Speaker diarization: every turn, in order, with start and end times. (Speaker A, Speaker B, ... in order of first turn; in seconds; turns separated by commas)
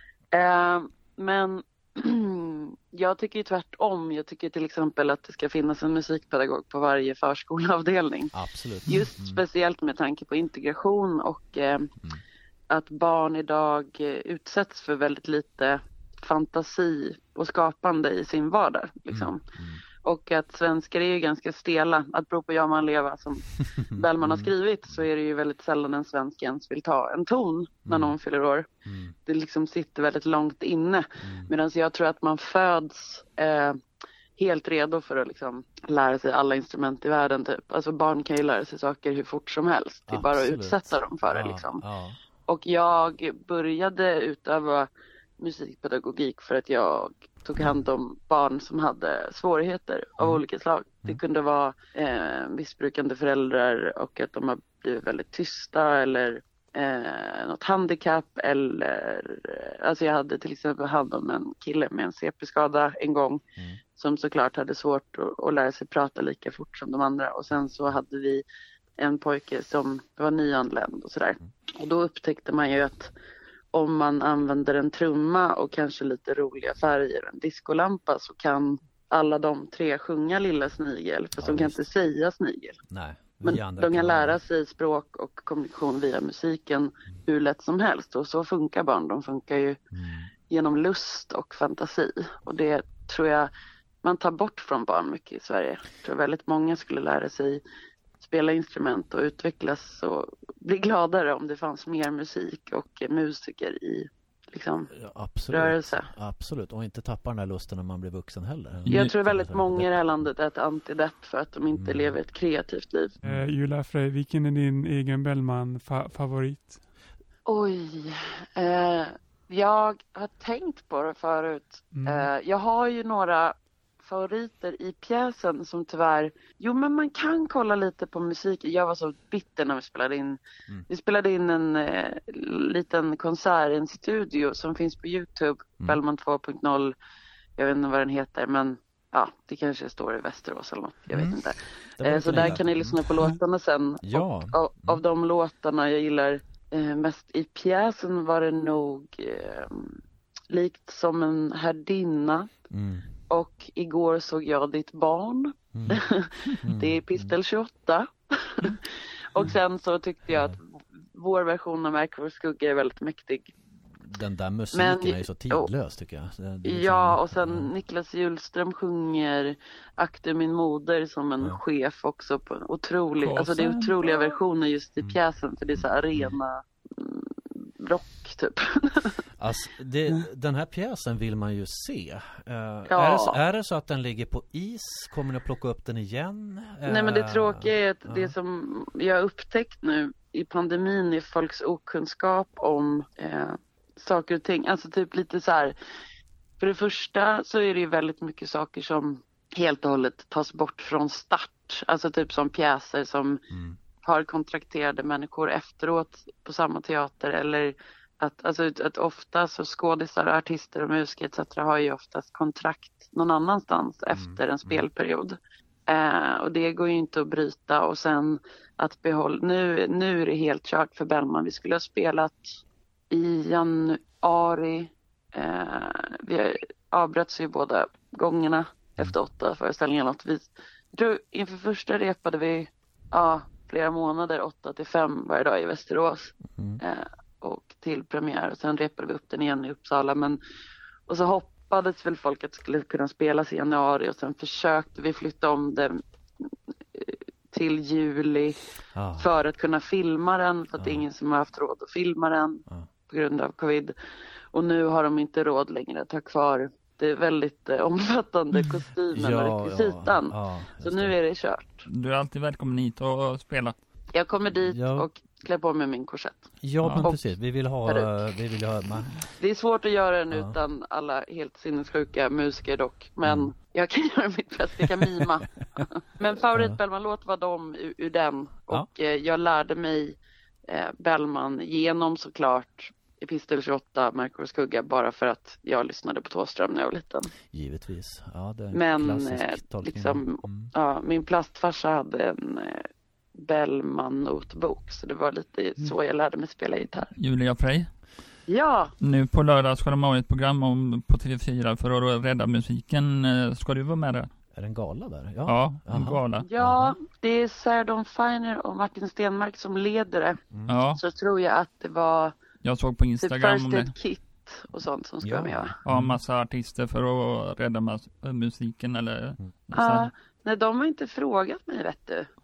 Speaker A: 0.3-11.9, Speaker B: 8.3-9.4, Speaker A: 12.7-28.7, Speaker B: 19.1-19.8, Speaker B: 23.8-24.5, Speaker B: 27.9-28.2, Speaker B: 28.9-29.1, Speaker A: 29.3-33.8, Speaker B: 31.2-31.5, Speaker A: 34.4-41.8, Speaker B: 40.1-42.2, Speaker A: 42.5-63.4, Speaker A: 64.0-68.4, Speaker A: 69.0-73.1, Speaker A: 73.7-82.8, Speaker B: 81.4-81.8, Speaker B: 82.9-84.4, Speaker A: 83.4-89.8, Speaker B: 89.9-90.3, Speaker A: 90.5-93.5, Speaker A: 94.0-97.6, Speaker A: 98.2-104.9, Speaker B: 104.9-109.9, Speaker A: 105.5-106.1, Speaker C: 108.9-109.2, Speaker A: 108.9-113.2, Speaker B: 111.7-112.2, Speaker B: 113.2-113.5, Speaker D: 113.2-116.8, Speaker A: 117.5-136.9, Speaker D: 121.9-122.3, Speaker A: 137.6-152.5, Speaker B: 141.1-143.3, Speaker B: 144.0-145.0, Speaker B: 152.7-153.1, Speaker A: 153.3-163.5, Speaker B: 155.7-156.0, Speaker B: 156.6-157.3, Speaker B: 160.3-160.6, Speaker B: 164.0-167.7, Speaker A: 164.7-165.7, Speaker A: 166.7-179.2, Speaker C: 173.2-174.0, Speaker B: 175.8-176.3, Speaker B: 179.4-188.3, Speaker A: 182.9-183.4, Speaker A: 186.9-195.8, Speaker A: 196.6-203.4, Speaker B: 203.5-203.8, Speaker A: 204.0-240.4, Speaker B: 214.1-214.9, Speaker B: 236.6-236.8, Speaker A: 241.1-248.6, Speaker B: 248.9-249.3, Speaker A: 249.2-253.9, Speaker B: 250.8-251.0, Speaker A: 254.5-261.9, Speaker B: 259.1-261.1, Speaker C: 261.9-263.8, Speaker A: 264.1-267.2, Speaker B: 264.6-265.1, Speaker B: 266.6-269.3, Speaker C: 266.8-267.1, Speaker A: 267.9-268.2, Speaker A: 269.4-287.3, Speaker B: 273.2-273.5, Speaker B: 287.5-290.7, Speaker A: 288.7-297.1, Speaker C: 297.2-298.0, Speaker A: 298.5-298.9, Speaker C: 299.0-304.3, Speaker B: 304.6-306.9, Speaker C: 305.5-306.5, Speaker A: 306.4-310.4, Speaker B: 310.5-310.8, Speaker C: 310.7-311.0, Speaker A: 311.0-312.4, Speaker C: 312.6-313.9, Speaker A: 313.2-315.8, Speaker B: 315.2-316.2, Speaker C: 315.9-320.1, Speaker A: 319.7-322.3